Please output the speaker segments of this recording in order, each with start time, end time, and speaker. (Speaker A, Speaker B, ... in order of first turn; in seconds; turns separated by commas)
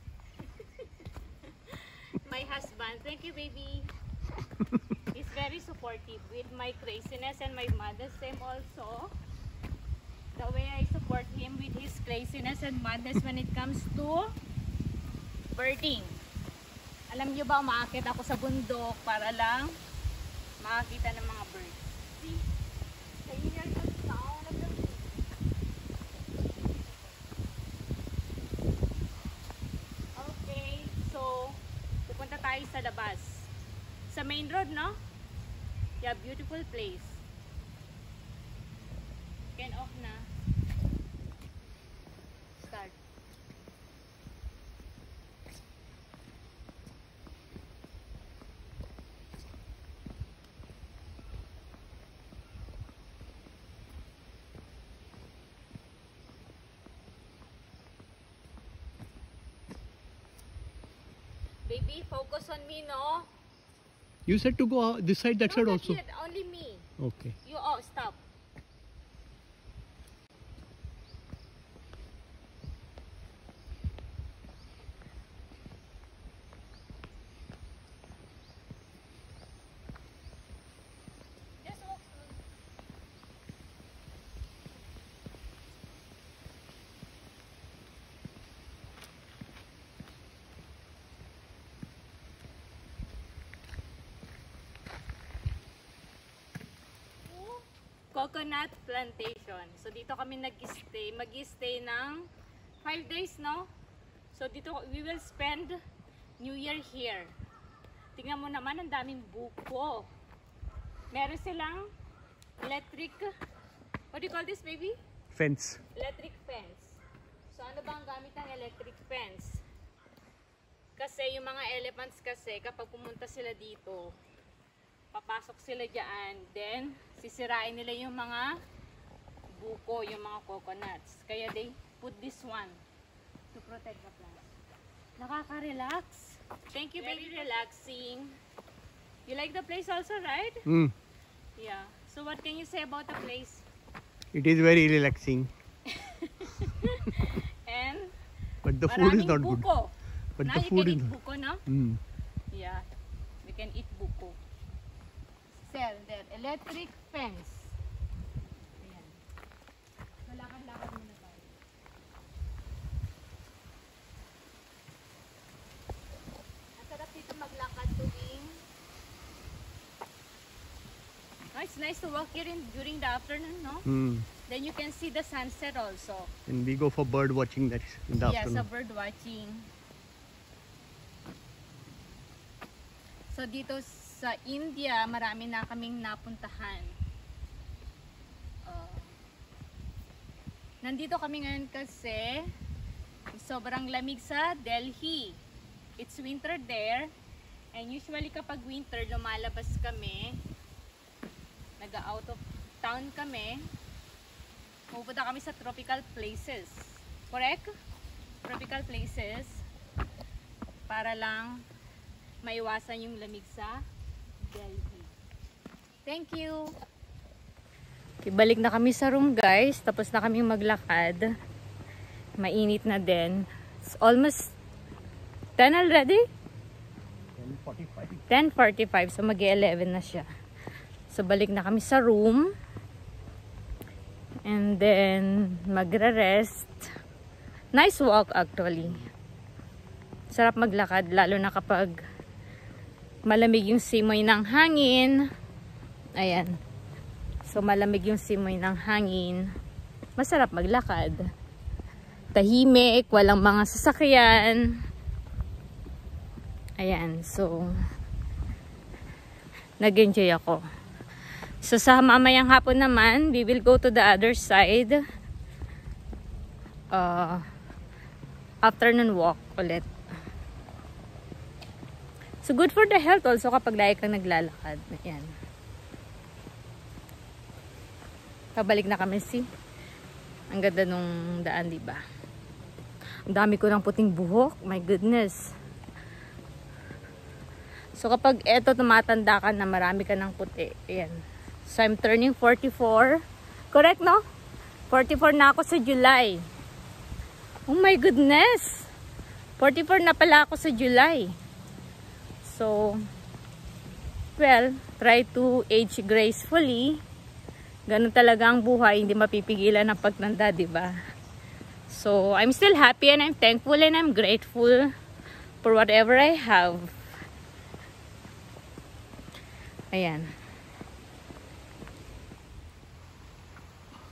Speaker A: 0.4-3.9, Speaker A: 5.1-9.1, Speaker A: 10.3-14.3, Speaker A: 15.5-16.2, Speaker A: 17.1-19.7, Speaker A: 20.6-22.4, Speaker A: 23.2-25.3, Speaker A: 30.1-33.5, Speaker A: 34.1-35.0, Speaker A: 36.0-37.2, Speaker A: 39.5-40.3, Speaker A: 42.6-43.0, Speaker A: 61.6-63.3, Speaker B: 64.2-66.0, Speaker A: 65.4-66.9, Speaker B: 67.0-67.3, Speaker A: 67.4-68.2, Speaker A: 81.6-82.4, Speaker A: 97.2-102.3, Speaker A: 102.8-103.7, Speaker A: 104.3-105.8, Speaker A: 106.4-107.3, Speaker A: 108.1-110.1, Speaker A: 111.1-111.9, Speaker A: 112.6-113.3, Speaker A: 114.1-115.0, Speaker B: 115.3-115.8, Speaker A: 115.9-119.6, Speaker A: 121.0-124.1, Speaker A: 125.1-128.5, Speaker A: 129.5-132.8, Speaker A: 133.5-134.5, Speaker A: 135.2-138.4, Speaker A: 139.2-140.6, Speaker B: 140.7-140.9, Speaker A: 141.6-143.6, Speaker B: 144.3-145.5, Speaker A: 145.8-148.1, Speaker B: 148.6-149.7, Speaker A: 148.8-151.6, Speaker B: 150.4-152.0, Speaker A: 152.5-152.8, Speaker A: 153.4-154.3, Speaker A: 155.6-157.7, Speaker A: 158.8-159.2, Speaker A: 160.2-161.5, Speaker A: 166.8-168.6, Speaker A: 171.5-173.9, Speaker B: 173.8-174.3, Speaker A: 174.4-176.3, Speaker B: 176.5-178.7, Speaker A: 178.2-179.7, Speaker A: 183.3-186.9, Speaker A: 188.7-189.2, Speaker A: 190.8-192.5, Speaker A: 193.3-195.4, Speaker A: 196.0-197.1, Speaker A: 197.7-200.4, Speaker A: 201.8-203.7, Speaker A: 204.9-207.7, Speaker A: 208.4-209.6, Speaker A: 210.9-211.6, Speaker A: 212.4-213.8, Speaker A: 214.4-215.1, Speaker A: 216.0-216.7, Speaker A: 218.2-221.3, Speaker A: 222.4-224.5, Speaker A: 225.6-226.2, Speaker B: 227.4-228.2, Speaker A: 228.3-230.3, Speaker A: 231.1-232.5, Speaker A: 234.4-236.9, Speaker A: 237.7-239.1, Speaker A: 240.3-241.9, Speaker A: 243.2-245.2, Speaker A: 246.2-246.6, Speaker A: 247.4-249.4, Speaker A: 250.2-251.3, Speaker A: 252.3-254.6, Speaker A: 256.8-257.7, Speaker A: 259.8-260.6, Speaker A: 261.6-265.0, Speaker A: 266.9-267.4, Speaker A: 268.6-269.9, Speaker A: 272.4-275.3, Speaker A: 278.6-279.4, Speaker A: 280.5-282.0, Speaker A: 283.3-285.4, Speaker A: 287.9-293.2, Speaker A: 293.7-294.2, Speaker A: 294.9-296.4, Speaker A: 297.7-298.9, Speaker A: 299.6-301.3, Speaker A: 302.4-303.0, Speaker A: 304.4-307.0, Speaker A: 307.9-310.9, Speaker A: 311.9-314.9, Speaker A: 315.6-317.1, Speaker A: 319.9-320.3